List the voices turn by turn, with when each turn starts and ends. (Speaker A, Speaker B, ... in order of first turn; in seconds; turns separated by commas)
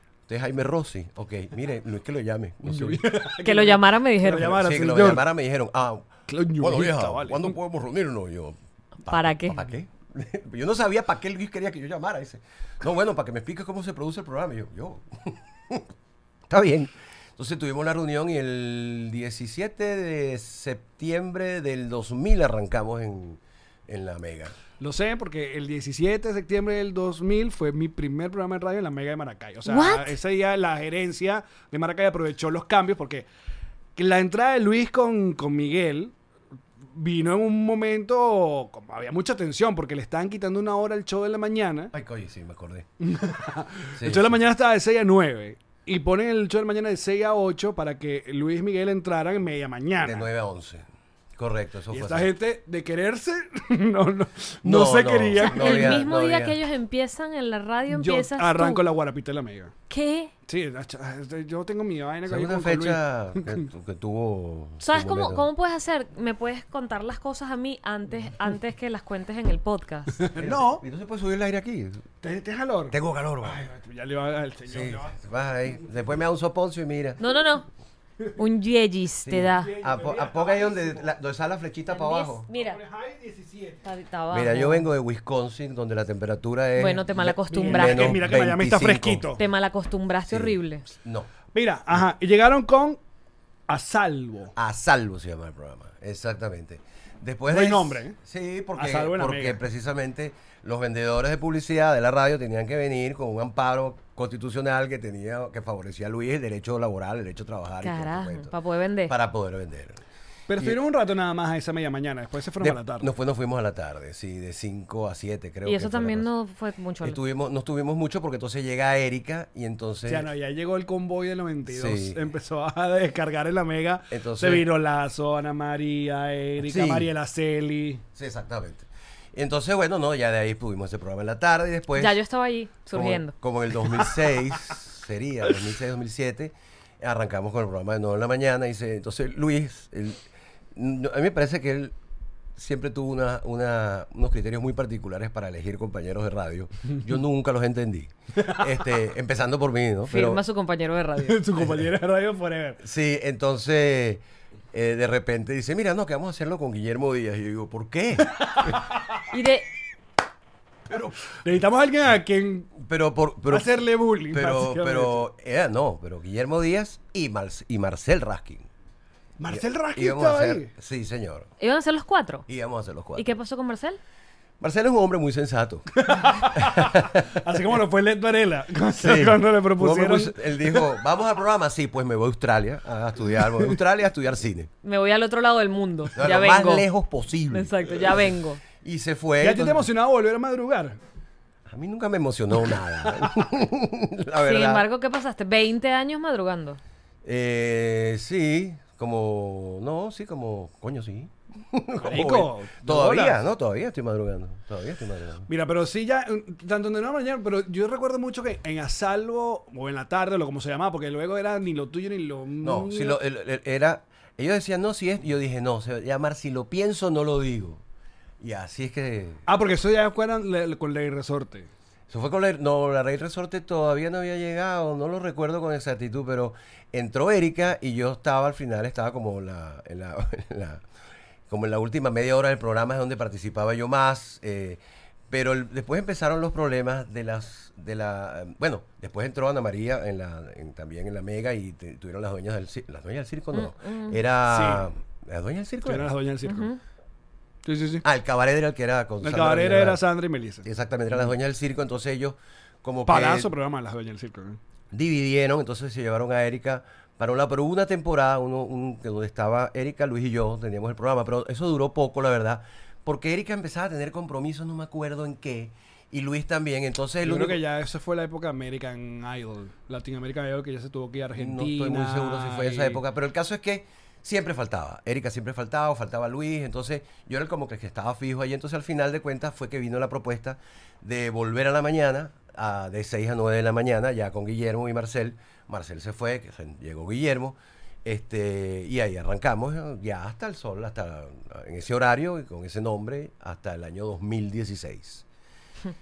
Speaker A: 0.3-3.0, Speaker B: 2.6-5.2, Speaker C: 3.4-4.6, Speaker A: 4.5-15.9, Speaker B: 6.3-7.5, Speaker C: 9.1-9.7, Speaker A: 16.5-24.6, Speaker B: 24.8-33.3, Speaker C: 29.7-30.1, Speaker B: 34.0-36.1, Speaker B: 36.9-41.9, Speaker A: 41.9-42.9, Speaker B: 43.0-50.3, Speaker A: 44.0-44.4, Speaker A: 50.0-50.9, Speaker A: 51.4-52.3, Speaker B: 51.9-56.0, Speaker A: 54.6-56.6, Speaker C: 55.4-58.8, Speaker B: 57.9-59.7, Speaker C: 59.9-60.3, Speaker B: 60.5-63.6, Speaker A: 62.3-65.5, Speaker C: 64.8-70.2, Speaker B: 70.2-70.8, Speaker A: 70.4-72.0, Speaker B: 72.2-75.2, Speaker A: 72.9-73.7, Speaker A: 74.7-77.2, Speaker C: 77.2-77.7, Speaker C: 78.4-79.7, Speaker A: 79.2-82.5, Speaker B: 79.5-81.1, Speaker C: 81.9-82.8, Speaker B: 82.5-83.9, Speaker C: 83.8-84.9, Speaker A: 84.3-89.3, Speaker C: 86.8-88.2, Speaker B: 87.5-89.4, Speaker C: 89.4-90.8, Speaker A: 90.3-91.3, Speaker B: 91.5-93.0, Speaker B: 93.7-94.5, Speaker A: 94.6-108.5, Speaker B: 97.5-98.2, Speaker B: 98.8-99.6, Speaker C: 107.8-109.1, Speaker A: 109.1-110.0, Speaker B: 110.5-113.1, Speaker A: 112.6-116.3, Speaker C: 115.7-117.2, Speaker A: 117.0-120.3, Speaker B: 120.1-128.0, Speaker A: 121.7-122.2, Speaker A: 124.1-124.7, Speaker A: 126.6-127.1, Speaker A: 128.2-132.2, Speaker C: 132.0-133.3, Speaker A: 132.9-140.2, Speaker A: 140.8-141.9, Speaker A: 142.6-150.4, Speaker B: 148.4-148.7, Speaker C: 150.1-151.4, Speaker B: 151.2-152.8, Speaker A: 151.6-151.9, Speaker A: 152.8-158.7, Speaker B: 158.3-159.0, Speaker C: 159.3-159.7, Speaker A: 160.9-161.2, Speaker B: 161.4-162.8, Speaker A: 162.8-168.7, Speaker B: 163.5-165.2, Speaker B: 169.4-170.7, Speaker A: 169.5-171.5, Speaker C: 171.6-172.4, Speaker A: 172.5-173.4, Speaker C: 173.2-174.0, Speaker A: 174.6-177.4, Speaker B: 175.9-180.9, Speaker A: 179.0-184.7, Speaker C: 184.8-186.9, Speaker A: 186.2-189.9, Speaker C: 187.5-188.6, Speaker B: 189.4-191.0, Speaker A: 191.7-194.9, Speaker C: 194.4-196.8, Speaker A: 197.2-205.5, Speaker B: 202.0-203.4, Speaker B: 205.5-213.2, Speaker A: 212.6-217.8, Speaker A: 218.4-219.4, Speaker B: 219.5-221.7, Speaker A: 222.1-230.8, Speaker A: 231.5-246.1, Speaker C: 243.5-244.2, Speaker B: 244.5-244.9, Speaker B: 245.8-246.7, Speaker C: 246.5-246.8, Speaker B: 247.7-248.1, Speaker A: 248.0-250.0, Speaker B: 249.2-250.7, Speaker A: 250.6-253.5, Speaker B: 253.1-254.6, Speaker A: 254.9-267.6, Speaker B: 267.2-273.0, Speaker A: 271.4-295.3